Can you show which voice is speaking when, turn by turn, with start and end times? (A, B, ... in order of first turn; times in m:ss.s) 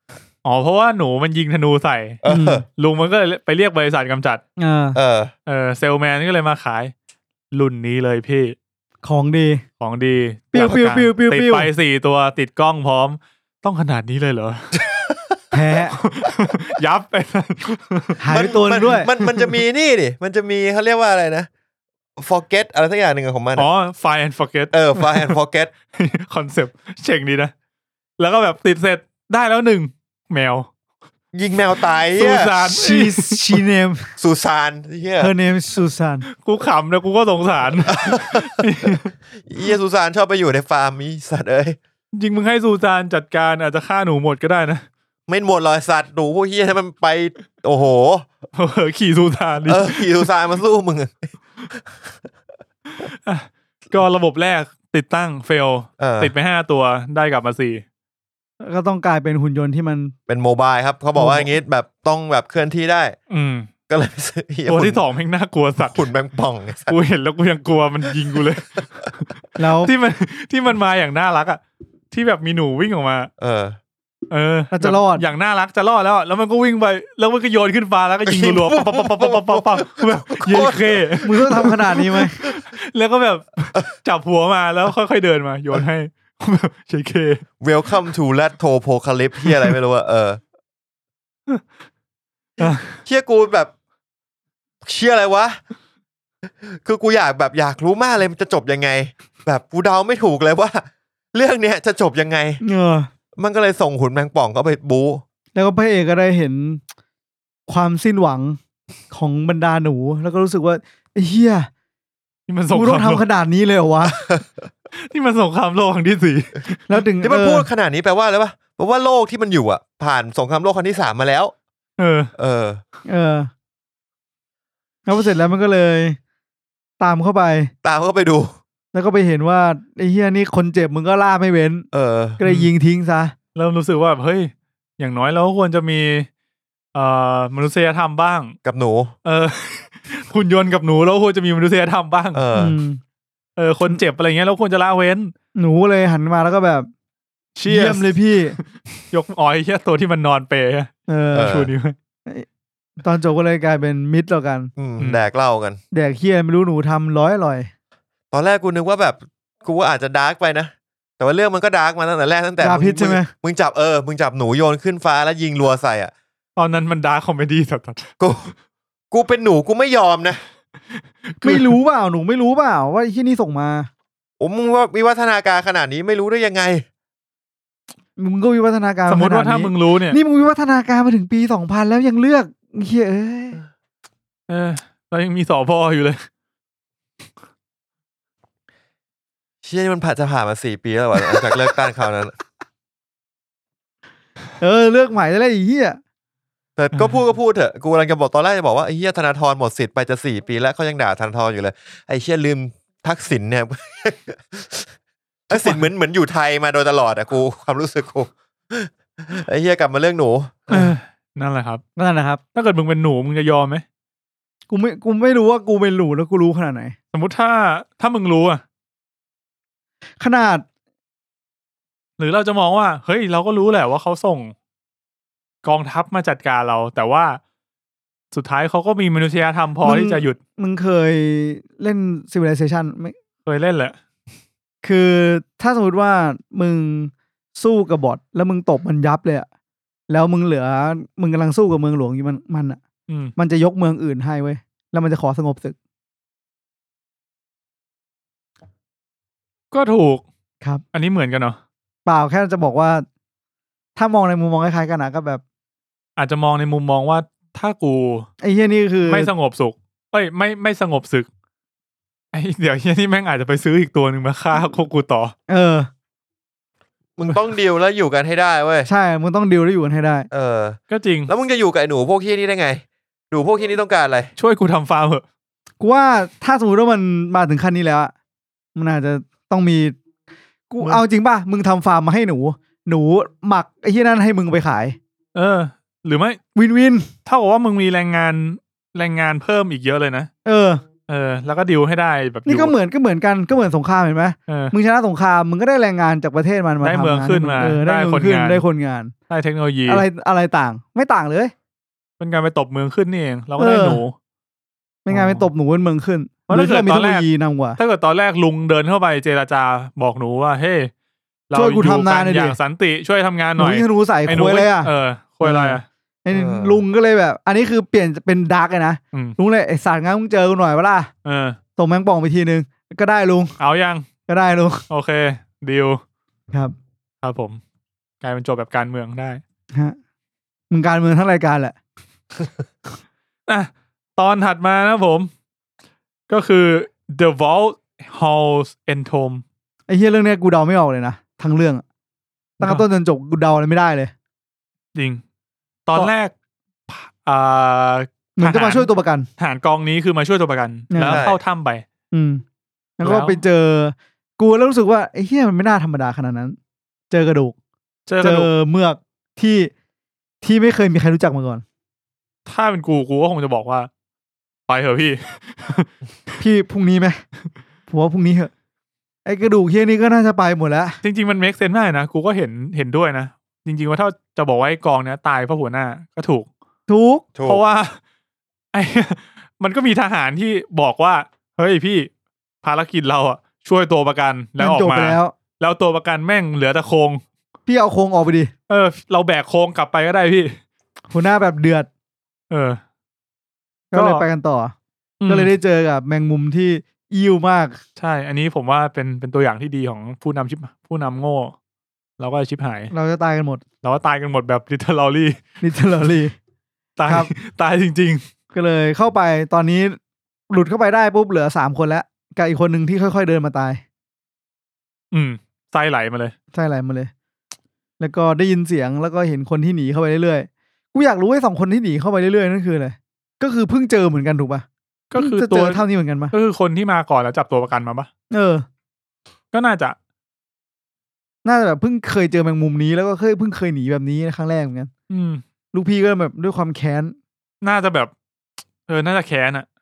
0:00.4-0:04.4 A
0:02.2-0:02.6 B
0:02.3-0:02.6 C
0:04.6-0:05.0 C
0:05.0-0:05.3 B
0:05.5-0:06.9 A
0:07.5-0:08.6 A
0:09.0-0:09.6 C
0:09.8-0:14.8 A
0:10.5-0:11.7 C
0:15.5-0:16.0 C
0:16.0-0:18.2 A
0:18.2-0:19.1 C
0:18.3-0:21.5 B
0:18.9-0:19.5 A
0:22.2-0:23.7 B
0:23.6-0:25.4 A
0:24.7-0:25.7 B
0:25.9-0:27.5 A
0:28.2-0:30.7 A
0:31.3-0:32.5 B
0:31.8-0:33.6 A
0:32.6-0:34.1 C
0:34.2-0:35.3 B
0:35.2-0:36.3 C
0:36.3-0:39.1 A
0:37.9-0:41.8 B
0:42.1-0:44.8 A
0:45.3-0:48.3 B
0:48.6-0:50.3 A
0:49.6-0:51.3 B
0:53.0-0:57.8 A
0:56.0-0:56.3 B
0:58.6-1:00.1 C
1:00.3-1:03.2 B
1:01.2-1:01.5 C
1:03.3-1:03.7 A
1:03.9-1:05.0 B
1:04.7-1:06.0 A
1:05.9-1:07.0 B
1:06.9-1:11.6 A
1:09.6-1:09.9 C
1:12.1-1:13.3 A
1:13.4-1:13.8 B
1:14.3-1:27.4 A
1:14.7-1:15.2 C
1:18.2-1:21.7 B
1:21.2-1:22.4 C
1:27.6-1:30.4 B
1:32.6-1:33.0 A
1:32.6-1:33.7 B
1:34.8-1:35.6 B
1:36.5-1:42.6 B
1:42.6-1:43.1 C
1:43.4-1:45.2 B
1:45.6-1:46.8 C
1:47.7-1:48.6 C
1:49.1-1:51.7 C
1:52.5-1:53.2 A
1:52.7-1:54.2 C
1:54.1-1:54.5 B
1:54.9-1:57.0 A
1:56.9-1:57.7 C
1:57.2-2:01.5 B
2:02.0-2:02.3 A
2:02.4-2:02.8 B
2:03.1-2:03.5 C
2:05.1-2:06.2 C
2:07.0-2:07.7 C
2:07.8-2:08.6 B
2:08.9-2:11.9 C
2:11.9-2:12.4 B
2:12.4-2:13.4 C
2:12.4-2:12.7 A
2:13.6-2:16.3 A
2:17.0-2:18.6 A
2:18.6-2:19.1 B
2:19.2-2:22.4 A
2:22.3-2:22.8 B
2:22.5-2:23.0 C
2:23.6-2:25.3 A
2:25.6-2:26.9 C
2:27.6-2:32.0 A
2:27.7-2:28.6 C
2:31.1-2:31.5 C
2:31.3-2:31.7 B
2:33.0-2:34.7 C
2:34.8-2:35.8 B
2:35.0-2:35.2 A
2:35.9-2:37.7 C
2:38.3-2:46.1 B
2:42.6-2:43.3 C
2:46.6-2:48.1 A
2:48.2-2:48.5 B
2:49.1-2:50.4 B
2:50.9-2:51.7 A
2:51.4-2:53.9 C
2:54.4-2:56.8 B
2:58.2-3:03.6 C
2:59.1-3:00.2 A
3:04.5-3:06.3 A
3:09.6-3:12.4 B
3:14.6-3:16.0 C
3:16.8-3:24.9 B
3:25.5-3:30.9 B
3:25.5-3:25.8 A
3:30.7-3:31.8 A
3:32.0-3:32.4 C
3:32.6-3:33.8 A
3:34.7-3:37.0 C
3:37.1-3:38.6 A
3:40.2-3:40.6 C
3:42.2-3:44.5 A
3:45.6-3:47.4 A
3:48.3-3:50.4 A
3:49.8-3:53.2 C
3:53.5-3:54.0 A
3:54.8-3:59.5 C
4:00.1-4:02.8 C
4:03.1-4:03.3 A
4:03.4-4:05.8 C
4:09.7-4:10.2 A
4:10.9-4:11.6 A
4:12.1-4:13.0 C
4:14.0-4:15.4 C
4:16.2-4:18.3 A
4:18.4-4:19.3 C
4:19.1-4:21.3 A
4:22.3-4:25.3 A
4:25.5-4:25.9 C
4:27.2-4:28.9 B
4:28.9-4:30.3 C
4:30.3-4:34.3 B
4:30.9-4:31.3 A
4:34.4-4:35.2 A
4:35.8-4:38.1 C
4:38.8-4:40.0 C
4:40.7-4:45.0 C
4:45.4-4:46.4 A
4:46.6-4:47.1 C
4:47.3-4:50.3 A
4:50.4-4:50.8 C
4:51.1-4:52.7 A
4:52.5-4:59.1 C
4:54.5-4:54.7 A
4:56.8-4:58.6 A
4:59.3-5:00.0 A
4:59.9-5:01.5 C
5:02.2-5:04.2 A
5:03.6-5:04.0 C
5:05.1-5:07.8 C
5:05.1-5:05.5 A
5:06.5-5:10.9 A
5:11.5-5:15.9 A
5:11.5-5:12.6 C
5:13.6-5:14.9 C
5:15.4-5:21.1 C
5:16.3-5:16.8 B
5:21.2-5:21.6 A
5:21.8-5:23.6 C
5:23.6-5:24.1 A
5:24.3-5:24.8 C
5:24.9-5:26.0 A
5:27.2-5:27.6 A
5:28.2-5:29.4 A
5:30.7-5:31.8 C
5:33.5-5:35.3 A
5:36.3-5:39.4 A
5:39.9-5:41.8 C
5:42.6-5:42.8 A
5:42.6-5:44.1 C
5:45.0-5:45.2 A
5:45.9-5:46.3 A
5:46.9-5:51.8 A
5:48.4-5:49.3 C
5:50.9-5:51.2 C
5:51.1-5:51.4 B
5:52.1-5:52.4 C
5:53.0-5:56.6 C
5:53.0-5:53.4 A
5:57.1-5:57.6 C
5:58.1-5:58.5 A
5:58.2-5:59.7 C
6:00.4-6:01.6 C
6:02.5-6:03.9 A
6:04.7-6:05.9 A
6:06.4-6:07.2 C
6:07.9-6:08.5 C
6:09.2-6:11.0 C
6:11.0-6:16.5 A
6:16.9-6:17.3 C
6:17.4-6:17.6 B
6:17.4-6:18.0 A
6:18.7-6:22.1 A
6:22.6-6:27.2 A
6:24.6-6:25.3 C
6:27.7-6:28.5 C
6:28.7-6:30.6 A
6:31.1-6:31.9 C
6:32.5-6:32.8 A
6:33.9-6:34.7 C
6:33.9-6:34.2 A
6:35.2-6:35.5 A
6:35.3-6:37.8 C
6:38.0-6:41.6 A
6:42.2-6:42.9 A
6:42.9-6:43.6 C
6:43.8-6:45.6 A
6:45.6-6:46.4 C
6:47.0-6:48.2 A
6:47.1-6:47.3 C
6:48.5-6:50.0 C
6:50.5-6:53.8 C
6:55.1-6:56.3 A
6:56.5-6:57.1 C
6:58.0-7:06.3 C
7:05.1-7:08.1 A
7:08.3-7:08.7 C
7:09.5-7:10.0 A
7:11.4-7:14.9 C
7:15.1-7:15.4 A
7:15.7-7:17.2 C
7:17.6-7:18.1 A
7:18.9-7:19.7 A